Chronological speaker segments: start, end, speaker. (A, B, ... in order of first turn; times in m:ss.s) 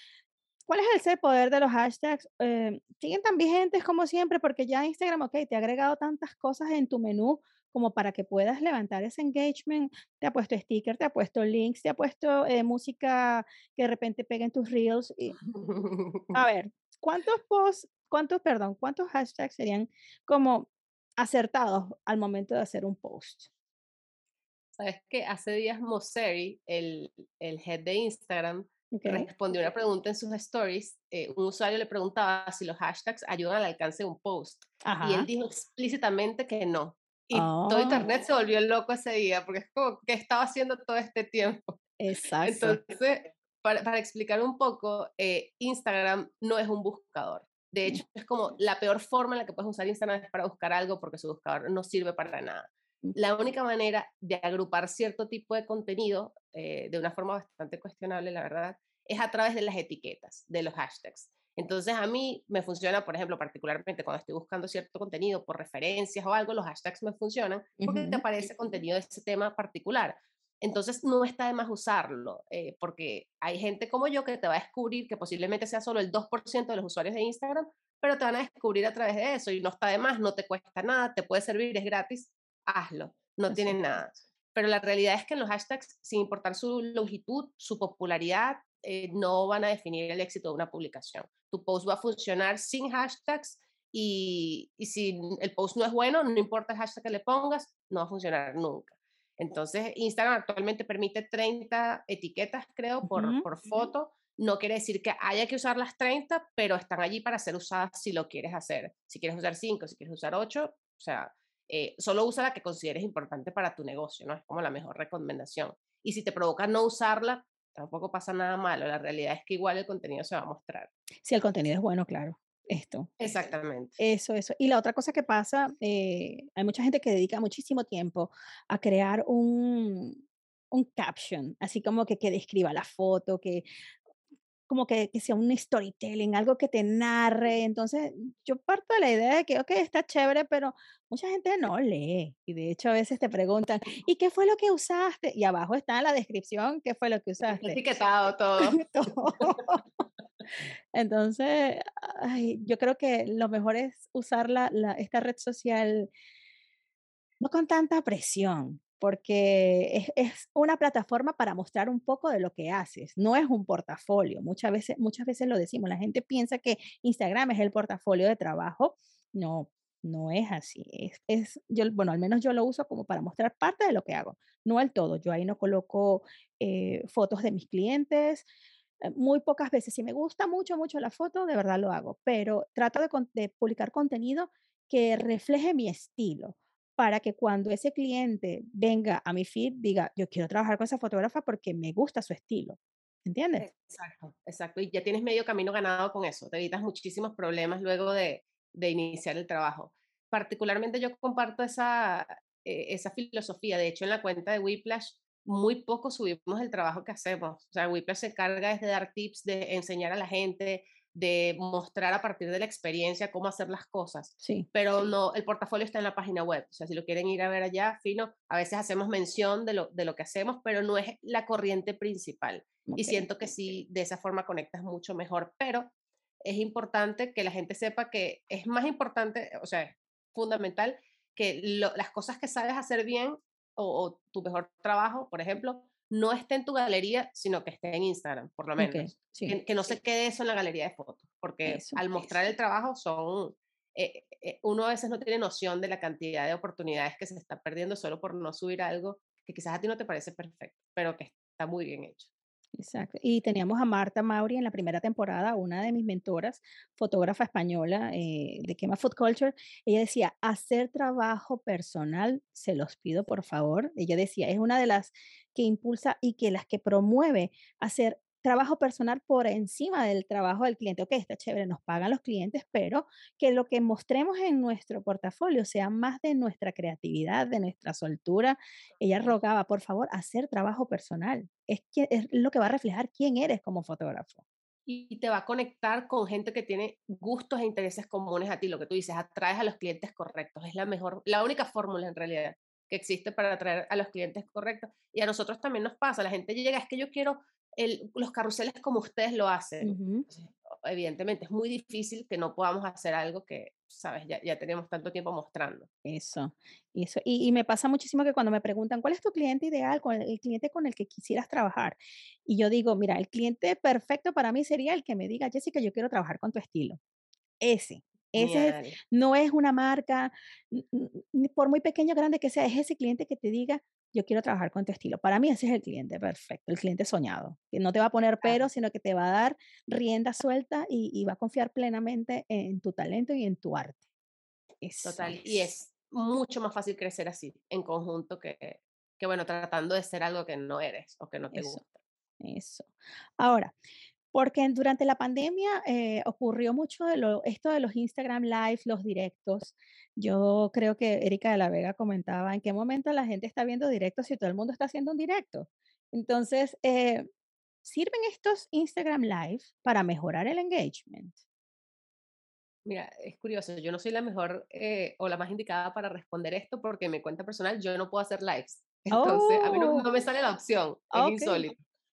0:00.7-0:15.4 A
0:15.5-0:16.4 B
0:16.3-0:23.5 A
0:24.8-0:41.8 B
0:28.9-0:29.3 A
0:34.8-0:35.3 A
0:37.3-0:38.0 A
0:42.0-0:42.8 A
0:42.4-2:00.9 B
1:07.8-1:08.2 A
1:23.5-1:23.8 A
1:43.1-1:43.4 A
2:01.2-2:03.1 A
2:03.2-2:04.0 B
2:04.0-2:13.6 A
2:14.7-2:27.8 A
2:27.5-2:28.8 B
2:28.6-2:29.8 A
2:30.9-2:36.1 A
2:37.4-2:58.4 A
2:59.0-3:13.7 A
3:13.6-3:45.9 B
3:34.4-3:34.7 A
3:42.9-3:43.2 A
3:46.4-4:12.3 B
3:58.8-3:59.6 A
4:01.6-4:02.0 A
4:12.7-4:44.4 A
4:44.9-5:05.9 B
4:59.8-5:00.2 A
5:06.0-5:17.0 A
5:17.6-5:34.0 A
5:18.4-5:19.0 B
5:34.8-5:35.7 A
5:35.0-5:41.9 B
5:41.5-5:41.8 A
5:42.4-5:43.7 A
5:44.3-5:57.3 A
5:57.8-6:01.4 A
6:02.8-6:11.8 B
6:09.1-6:10.0 A
6:11.1-6:11.6 A